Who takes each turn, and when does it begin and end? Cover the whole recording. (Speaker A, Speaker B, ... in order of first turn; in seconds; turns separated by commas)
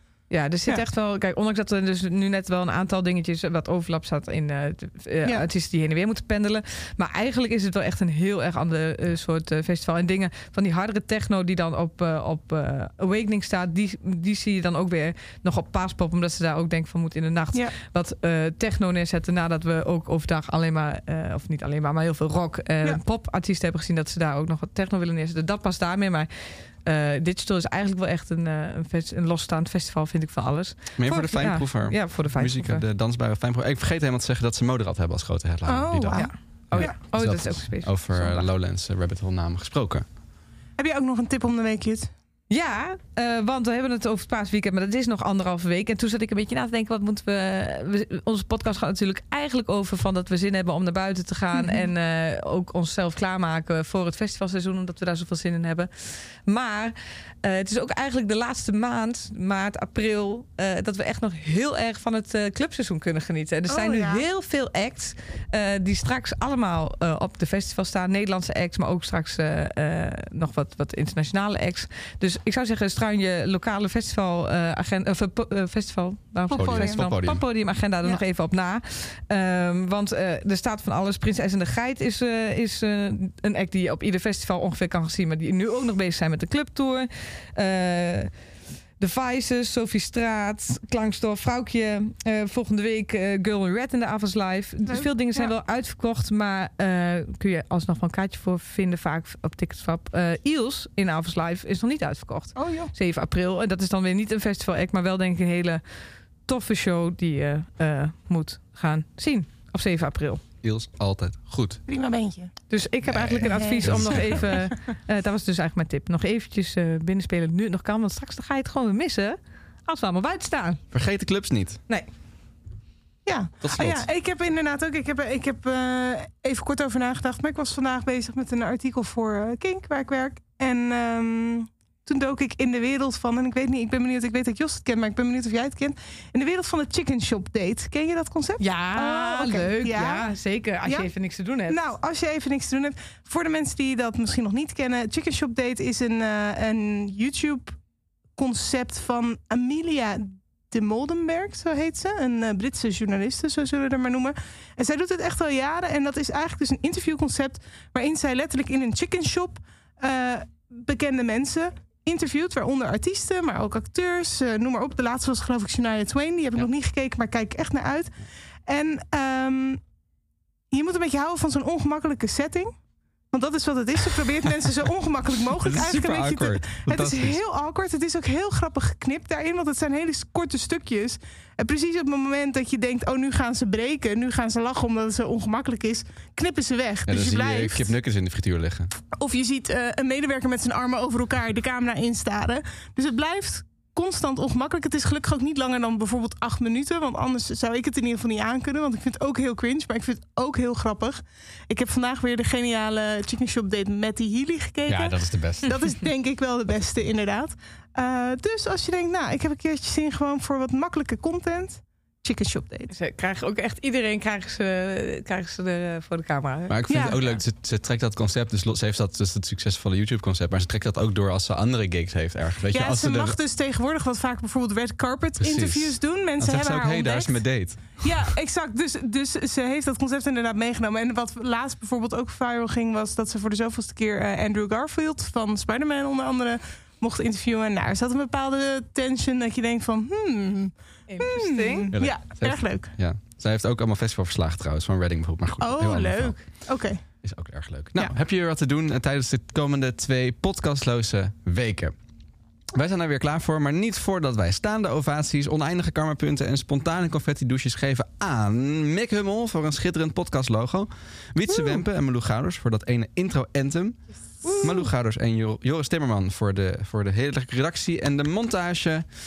Speaker A: 0.3-32.8, Speaker B: 31.0-40.0, Speaker C: 35.6-37.0, Speaker A: 36.1-38.5, Speaker C: 40.8-42.1, Speaker A: 42.5-88.3, Speaker C: 51.5-51.9, Speaker C: 63.7-64.2, Speaker C: 76.5-77.0, Speaker B: 76.5-77.4, Speaker A: 89.0-105.8, Speaker C: 94.9-95.5, Speaker C: 102.5-102.9, Speaker A: 106.5-110.4, Speaker B: 110.6-111.8, Speaker C: 111.9-112.5, Speaker A: 112.7-120.8, Speaker B: 113.1-114.7, Speaker C: 113.4-114.6, Speaker B: 120.9-121.8, Speaker C: 123.2-140.3, Speaker B: 123.6-124.1, Speaker A: 138.6-141.8, Speaker C: 141.7-147.8, Speaker C: 148.3-168.2, Speaker C: 168.7-169.8, Speaker C: 170.7-172.7, Speaker C: 173.3-187.9, Speaker B: 175.6-177.4, Speaker B: 187.1-188.9, Speaker C: 189.1-212.9, Speaker B: 204.9-205.8, Speaker A: 212.9-216.8, Speaker B: 216.7-223.4, Speaker C: 216.9-217.3, Speaker C: 222.7-227.4, Speaker B: 225.4-228.1, Speaker C: 228.0-242.9, Speaker A: 241.1-241.9, Speaker B: 241.9-246.3, Speaker C: 245.6-247.0, Speaker B: 247.2-251.9, Speaker B: 252.7-264.1, Speaker A: 264.4-264.9, Speaker B: 264.6-269.1